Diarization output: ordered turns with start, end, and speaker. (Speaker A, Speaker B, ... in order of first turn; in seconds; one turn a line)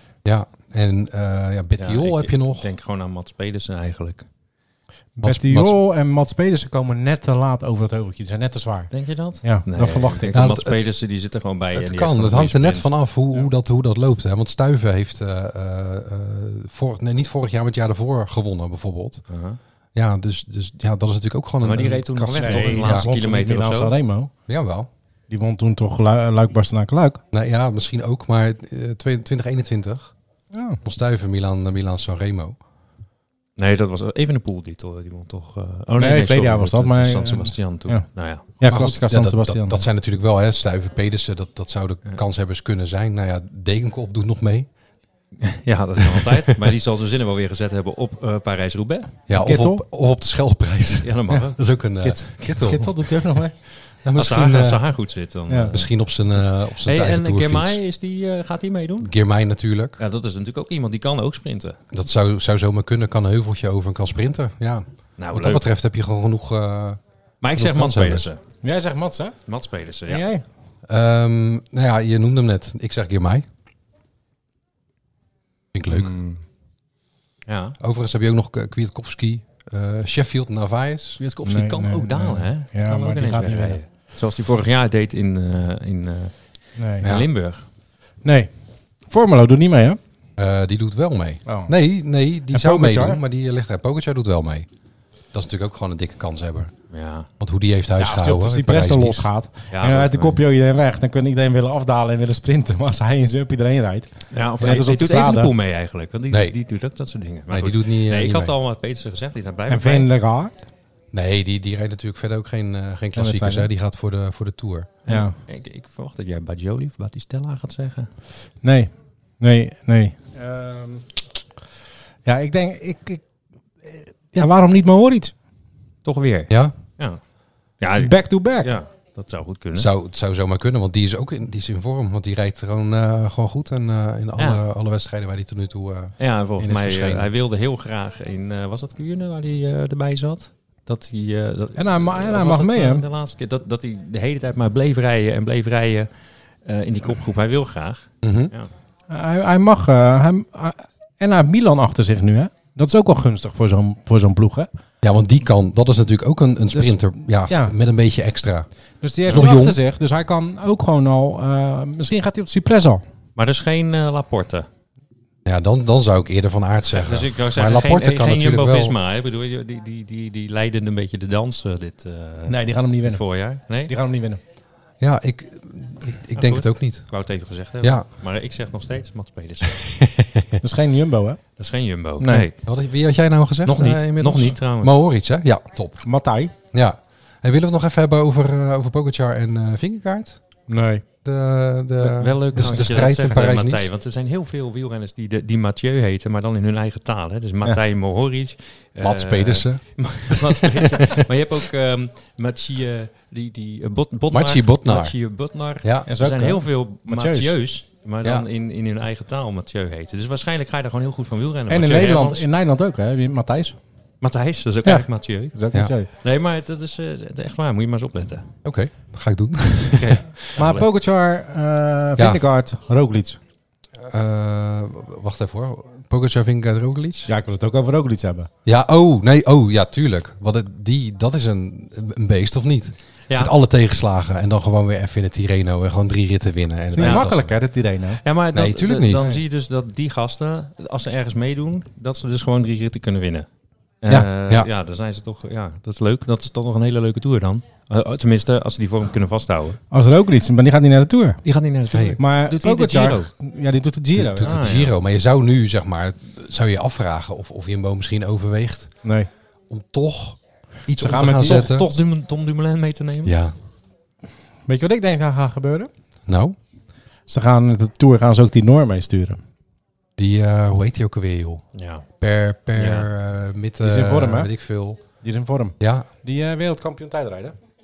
Speaker A: 0.2-2.7
Speaker B: 1.8-4.2
Speaker C: 5.2-10.3
Speaker A: 5.2-5.8
Speaker B: 8.9-12.9
Speaker A: 10.3-10.8
Speaker A: 11.7-19.2
Speaker B: 19.3-19.6
Speaker A: 20.0-23.0
Speaker B: 21.6-23.9
Speaker C: 22.3-24.3
Speaker A: 24.5-24.9
Speaker C: 25.3-27.2
Speaker A: 27.3-30.1
Speaker C: 30.5-30.8
Speaker A: 30.8-32.6
Speaker B: 33.6-38.5
Speaker C: 36.0-38.0
Speaker C: 38.6-39.9
Speaker A: 38.6-44.7
Speaker B: 45.4-49.1
Speaker A: 49.3-53.0
Speaker C: 49.3-49.8
Speaker B: 51.0-51.6
Speaker C: 52.0-53.5
Speaker A: 54.0-54.8
Speaker B: 54.1-55.9
Speaker C: 55.5-55.8
Speaker A: 55.7-57.8
Speaker B: 56.8-59.1
Speaker A: 59.0-60.0
Speaker B: 60.0-61.8
Speaker A: 61.9-67.0
Speaker B: 65.2-65.7
Speaker B: 67.4-68.4
Speaker A: 67.5-68.3
Speaker C: 68.6-69.4
Speaker B: 69.5-70.2
Speaker C: 70.1-70.4
Speaker A: 70.9-73.5
Speaker A: 75.7-76.1
Speaker C: 75.9-76.4
Speaker B: 77.5-77.8
Speaker A: 77.8-81.2
Speaker B: 81.2-86.3
Speaker C: 81.4-83.8
Speaker C: 86.8-87.1
Speaker B: 87.0-87.6
Speaker A: 87.0-87.3
Speaker C: 88.2-88.5
Speaker C: 89.1-90.0
Speaker A: 90.4-94.7
Speaker C: 91.5-91.8
Speaker C: 92.5-93.2
Speaker A: 95.3-96.7
Speaker B: 96.9-97.3
Speaker A: 97.4-99.3
Speaker C: 98.0-105.5
Speaker B: 99.7-100.4
Speaker B: 104.3-110.1
Speaker A: 106.3-106.6
Speaker A: 107.5-108.5
Speaker C: 109.7-110.5
Speaker A: 111.1-114.9
Speaker C: 113.2-113.7
Speaker B: 115.1-118.1
Speaker C: 115.1-115.3
Speaker C: 118.6-121.1
Speaker C: 122.2-123.2
Speaker C: 123.8-125.3
Speaker B: 126.0-127.2
Speaker A: 126.5-126.8
Speaker B: 127.8-129.9
Speaker C: 128.0-128.8
Speaker A: 129.7-137.3
Speaker B: 134.4-134.6
Speaker B: 136.2-146.1
Speaker C: 141.8-143.1
Speaker B: 146.7-148.7
Speaker A: 148.2-148.5
Speaker C: 149.1-154.7
Speaker A: 155.0-158.7
Speaker C: 156.7-157.8
Speaker C: 159.0-163.0
Speaker A: 159.3-159.8
Speaker B: 163.4-164.7
Speaker A: 165.4-169.0
Speaker B: 166.9-173.9
Speaker C: 172.5-174.4
Speaker A: 175.0-177.1
Speaker B: 176.4-179.9
Speaker A: 180.0-180.4
Speaker C: 180.6-181.4
Speaker B: 181.6-182.6
Speaker C: 182.2-182.5
Speaker A: 182.6-186.1
Speaker B: 183.7-185.0
Speaker C: 186.0-186.5
Speaker A: 186.7-190.4
Speaker C: 190.7-191.1
Speaker A: 191.2-193.9
Speaker B: 192.0-212.5
Speaker A: 199.0-201.2
Speaker A: 204.3-205.2
Speaker A: 205.8-206.1
Speaker C: 206.1-207.5
Speaker C: 211.7-213.8
Speaker B: 214.2-215.6
Speaker C: 214.8-216.1
Speaker B: 216.2-218.5
Speaker A: 218.6-220.4
Speaker B: 219.9-220.9
Speaker C: 220.6-223.4
Speaker A: 222.2-222.4
Speaker A: 224.1-227.3
Speaker C: 227.3-228.5
Speaker A: 228.7-237.5
Speaker C: 236.9-238.2
Speaker B: 237.0-237.4
Speaker B: 238.2-243.5
Speaker A: 238.5-239.4
Speaker B: 244.0-249.8
Speaker C: 249.9-251.4
Speaker B: 251.4-253.3
Speaker A: 251.9-252.2
Speaker C: 252.2-254.7
Speaker A: 254.1-258.9
Speaker B: 254.4-255.0
Speaker C: 259.0-259.3
Speaker A: 259.7-261.9
Speaker C: 260.9-261.8
Speaker B: 261.2-263.4
Speaker A: 263.2-263.5
Speaker C: 264.7-265.9
Speaker A: 266.3-266.6
Speaker C: 267.3-269.4
Speaker A: 270.2-271.6
Speaker B: 271.8-272.1
Speaker A: 272.2-275.0
Speaker B: 272.8-273.1
Speaker C: 273.8-274.5
Speaker C: 275.2-277.6
Speaker A: 275.8-276.1